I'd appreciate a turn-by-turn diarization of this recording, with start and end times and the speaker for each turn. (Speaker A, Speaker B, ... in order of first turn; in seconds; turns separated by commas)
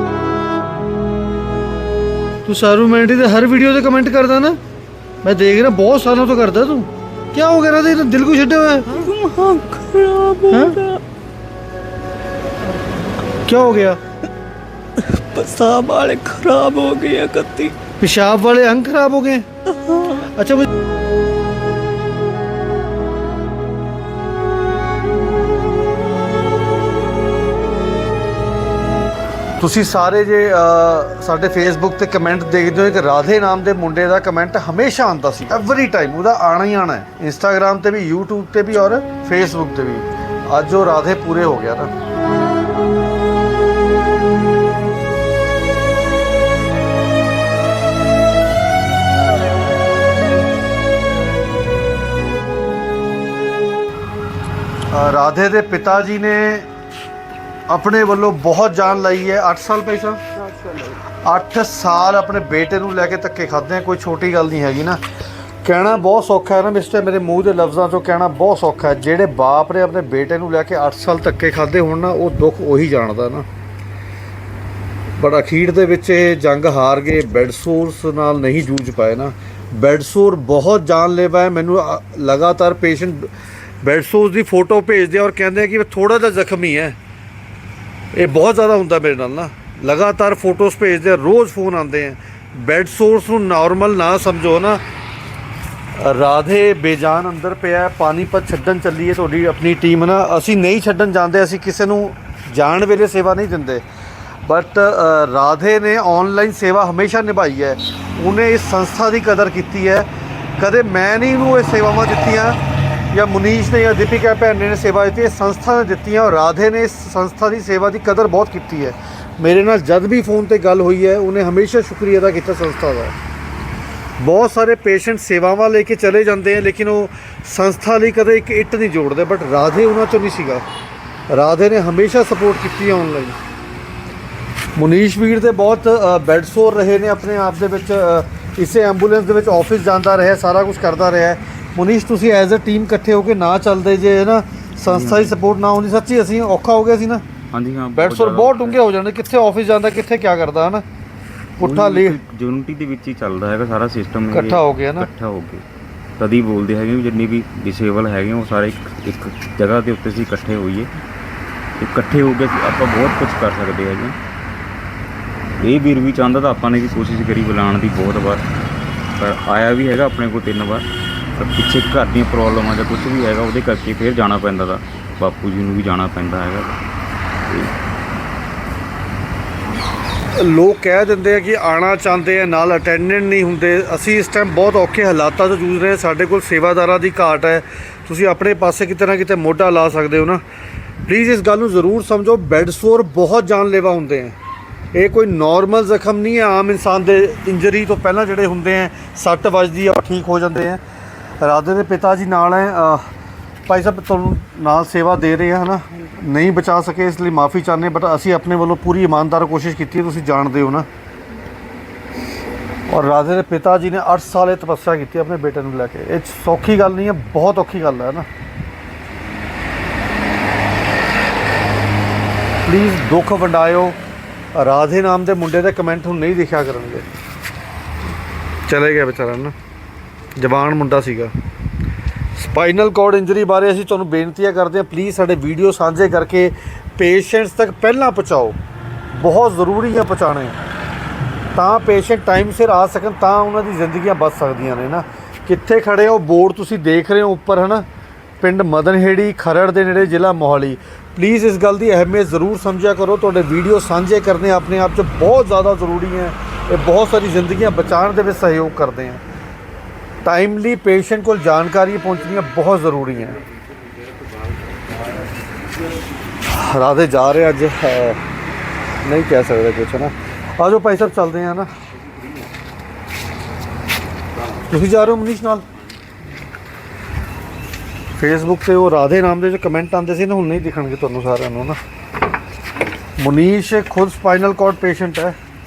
Speaker A: 2.4-4.6, Speaker A: 5.2-9.0, Speaker B: 8.9-11.0, Speaker A: 10.5-10.8, Speaker A: 13.4-14.0, Speaker B: 15.0-17.8, Speaker A: 17.9-19.5, Speaker B: 19.9-20.1, Speaker A: 20.0-20.7, Speaker A: 29.6-41.9, Speaker A: 54.9-56.7, Speaker A: 57.7-60.2, Speaker A: 61.2-65.0, Speaker A: 65.6-73.5, Speaker A: 75.2-83.3, Speaker A: 83.8-87.0, Speaker A: 88.1-94.8, Speaker A: 96.0-103.8, Speaker A: 104.5-110.1, Speaker A: 110.6-112.6, Speaker A: 113.1-123.2, Speaker A: 124.2-130.6, Speaker A: 131.3-133.4, Speaker A: 134.8-147.2, Speaker C: 144.8-145.4, Speaker C: 147.5-148.8, Speaker A: 147.9-150.8, Speaker A: 151.6-152.2, Speaker C: 151.6-155.6, Speaker A: 154.3-155.1, Speaker C: 156.2-160.9, Speaker C: 161.8-164.2, Speaker C: 165.6-168.4, Speaker C: 169.2-170.8, Speaker C: 171.4-176.8, Speaker A: 180.3-190.4, Speaker A: 191.1-194.3, Speaker A: 194.9-200.8, Speaker A: 201.4-203.1, Speaker A: 203.7-210.9, Speaker A: 212.9-218.3, Speaker A: 222.6-224.0, Speaker A: 224.6-227.1, Speaker A: 228.7-229.5, Speaker A: 230.3-231.3, Speaker A: 232.3-238.6, Speaker A: 239.1-240.6, Speaker A: 241.5-247.8, Speaker A: 248.4-259.2, Speaker A: 260.2-263.4, Speaker A: 266.5-268.2, Speaker A: 269.0-271.7, Speaker A: 274.6-275.6, Speaker A: 278.2-281.8, Speaker A: 283.2-285.4